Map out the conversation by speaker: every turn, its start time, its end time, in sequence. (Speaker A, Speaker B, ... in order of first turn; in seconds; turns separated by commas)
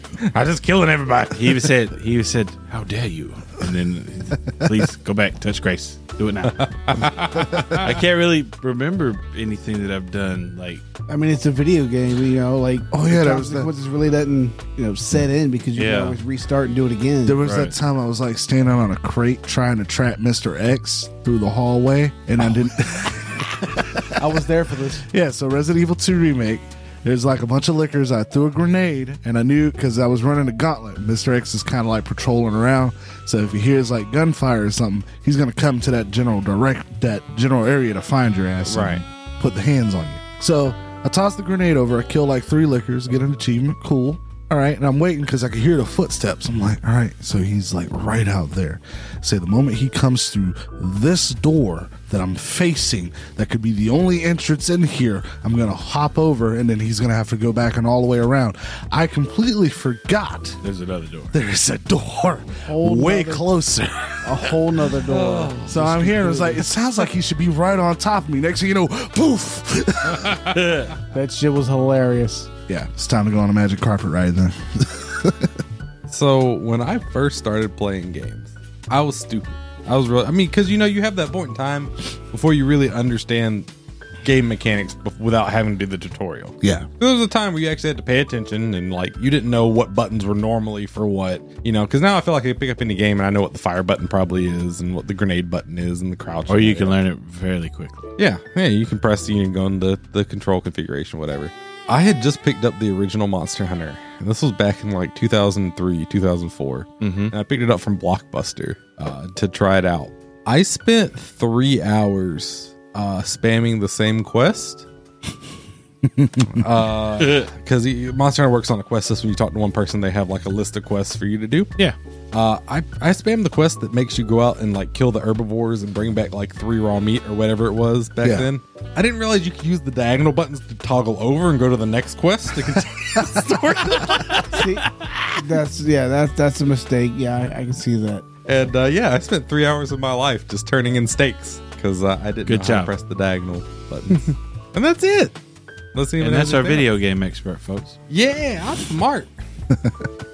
Speaker A: 0.2-1.4, Speaker B: 1.3-6.6, Speaker A: 6.5-7.8, Speaker C: 7.4-7.9, Speaker B: 7.7-10.8, Speaker D: 11.1-17.4, Speaker C: 12.9-13.7, Speaker B: 15.7-16.2, Speaker C: 17.2-24.3, Speaker B: 17.4-17.7, Speaker D: 24.0-25.1, Speaker C: 25.0-60.6, Speaker A: 38.6-39.0, Speaker B: 60.6-61.3, Speaker C: 61.3-64.5, Speaker D: 62.6-63.5, Speaker D: 64.2-66.7, Speaker B: 65.2-65.5, Speaker A: 65.2-65.5, Speaker C: 65.6-70.6, Speaker B: 70.4-70.9, Speaker D: 71.1-72.5, Speaker C: 72.7-75.5, Speaker A: 76.1-83.7, Speaker A: 84.2-97.0, Speaker C: 86.6-86.9, Speaker B: 96.5-98.0, Speaker A: 98.2-114.8, Speaker B: 107.0-107.3, Speaker C: 116.0-116.7, Speaker A: 116.5-121.7, Speaker B: 117.2-117.5, Speaker A: 122.3-134.7, Speaker C: 128.2-128.5, Speaker B: 134.1-135.4, Speaker D: 134.5-138.2, Speaker A: 138.4-145.3, Speaker B: 142.4-142.9, Speaker A: 145.9-146.9, Speaker B: 146.2-148.0, Speaker A: 148.1-149.3, Speaker C: 149.7-150.0